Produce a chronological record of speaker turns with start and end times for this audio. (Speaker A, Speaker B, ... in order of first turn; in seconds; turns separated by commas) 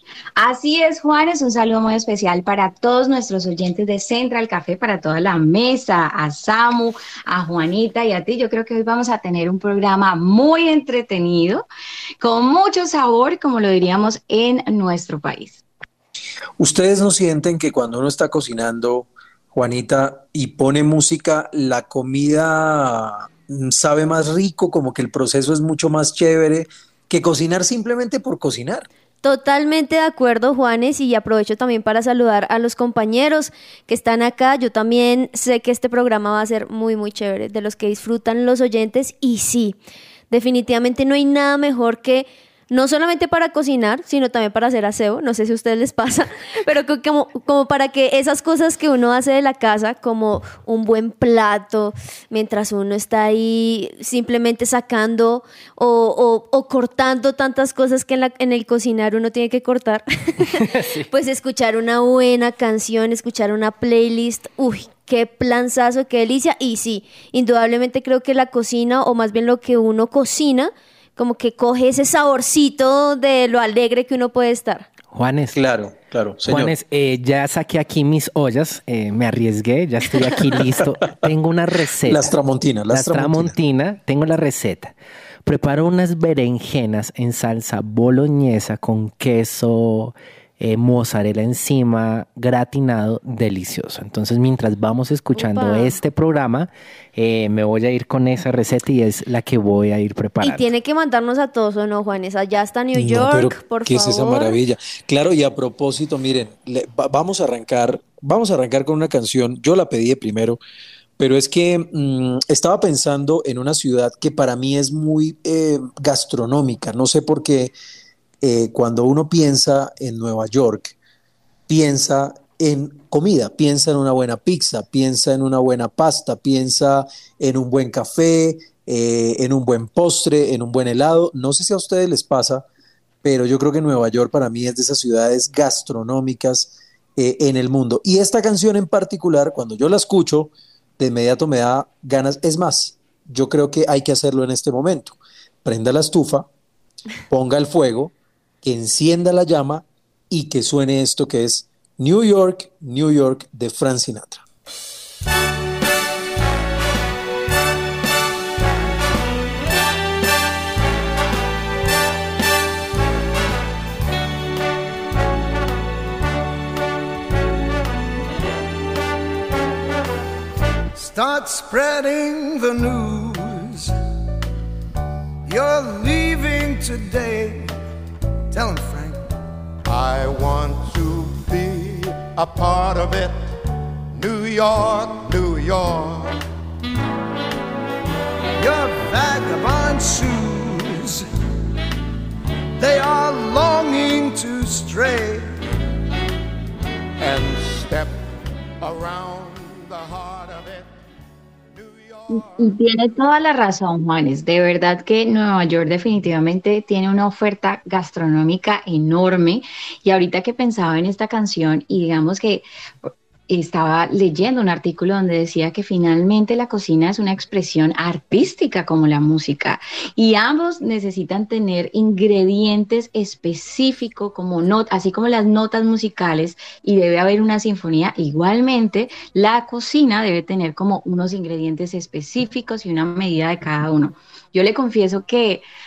Speaker A: 0.4-11.7, Speaker A: 12.2-15.6, Speaker B: 16.6-28.9, Speaker C: 29.2-39.8, Speaker C: 40.3-74.9, Speaker D: 60.5-61.1, Speaker D: 75.1-75.6, Speaker B: 75.5-76.7, Speaker D: 76.5-82.3, Speaker B: 82.1-83.5, Speaker D: 82.9-100.7, Speaker C: 95.3-96.0, Speaker C: 100.4-104.6, Speaker B: 103.0-110.6, Speaker B: 111.2-117.7, Speaker B: 118.4-121.0, Speaker B: 121.7-132.6, Speaker B: 133.2-146.5, Speaker B: 147.3-154.4, Speaker E: 170.9-173.9, Speaker E: 175.5-177.7, Speaker E: 178.5-179.2, Speaker F: 179.9-183.5, Speaker F: 184.1-186.3, Speaker E: 188.6-191.2, Speaker E: 192.8-195.5, Speaker F: 197.2-198.3, Speaker F: 198.8-200.9, Speaker F: 201.7-202.8, Speaker A: 202.3-235.7